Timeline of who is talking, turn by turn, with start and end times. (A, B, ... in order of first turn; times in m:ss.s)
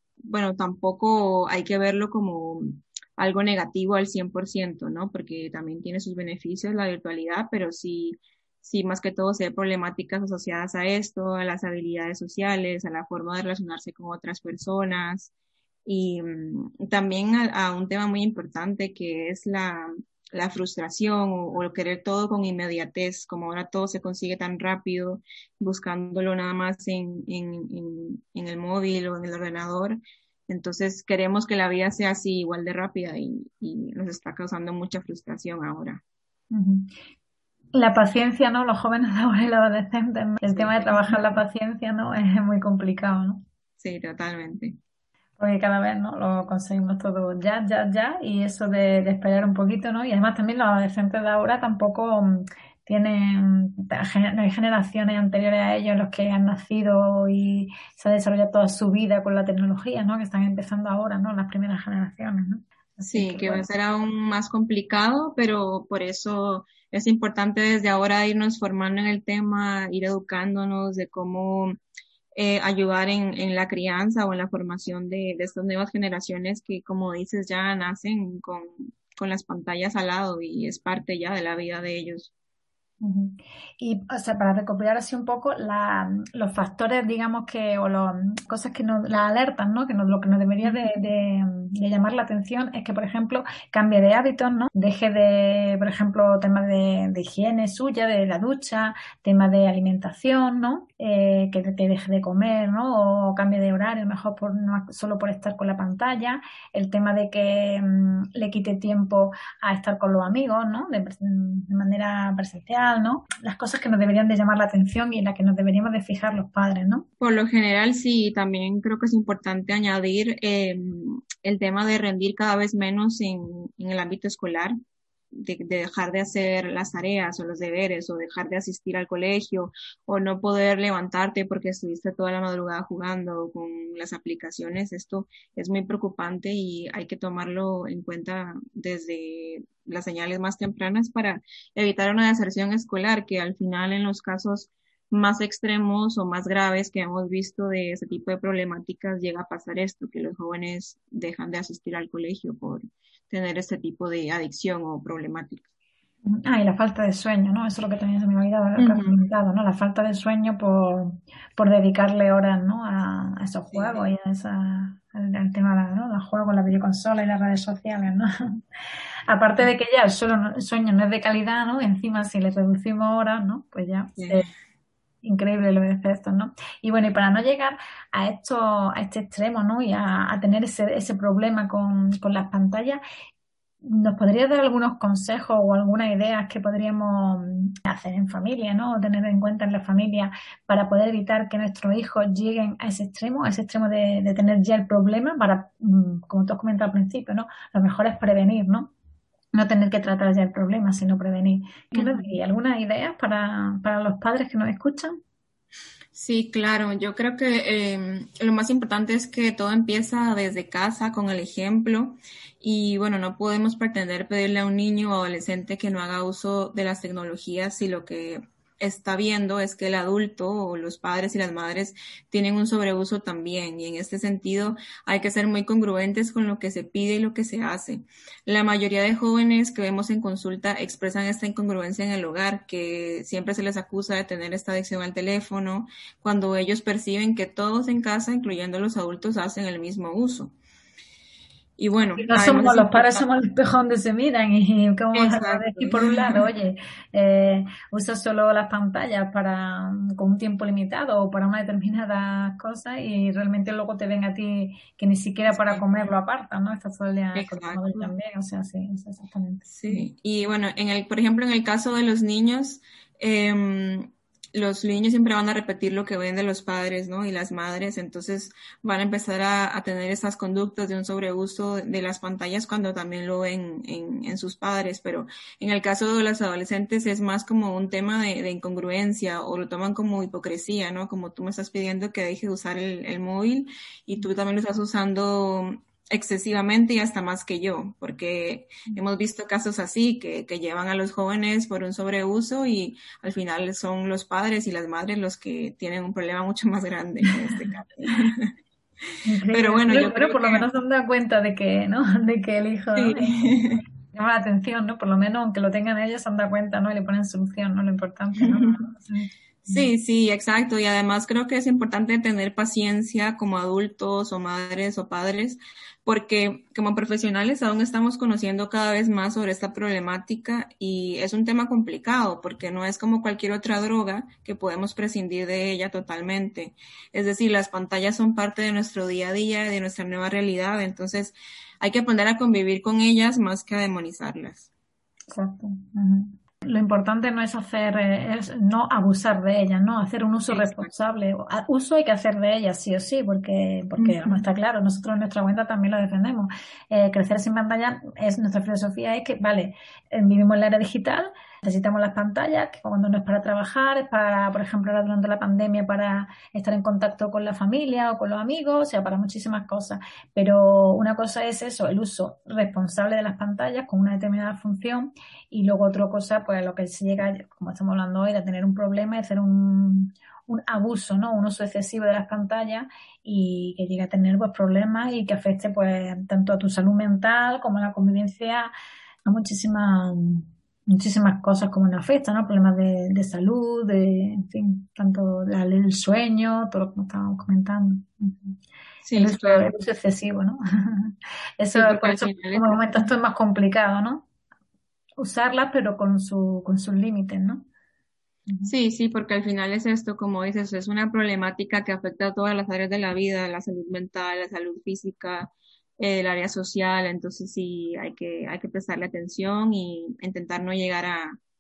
0:00.2-0:15.3 A
0:15.9-0:36.0 A
0:36.5-0:36.9 B
0:37.7-0:43.4 B
0:40.4-0:41.2 A
0:43.8-0:44.8 A
0:45.4-1:03.7 B
1:03.1-1:11.8 A
1:12.4-1:22.3 A
1:23.0-1:57.1 B
1:30.6-1:30.9 A
1:57.2-2:04.8 A
2:05.3-2:35.6 A
2:36.3-2:48.6 B
2:38.8-2:39.2 A
2:43.7-2:44.0 A
2:49.3-2:54.5 B
2:54.2-2:54.4 A
2:55.2-3:03.0 B
3:03.8-3:18.9 B
3:19.5-3:25.2 B
3:21.9-3:22.4 A
3:26.1-4:00.6 A
4:01.8-4:03.3 A
4:02.2-4:20.1 B
4:05.1-4:06.5 A
4:15.5-4:15.8 A
4:17.4-4:18.1 A
4:19.7-4:58.5 A
4:59.2-5:03.5 B
4:59.5-5:00.7 A
5:03.0-5:03.8 A
5:04.1-5:09.9 B
5:08.4-5:08.8 A
5:09.7-5:34.7 A
5:35.3-6:18.7 B
5:40.5-5:40.9 A
5:44.0-5:44.4 A
6:19.2-6:28.6 B
6:29.0-6:29.7 A
6:29.2-6:34.2 B
6:31.8-6:33.1 A
6:35.2-6:37.7 B
6:38.6-6:51.4 A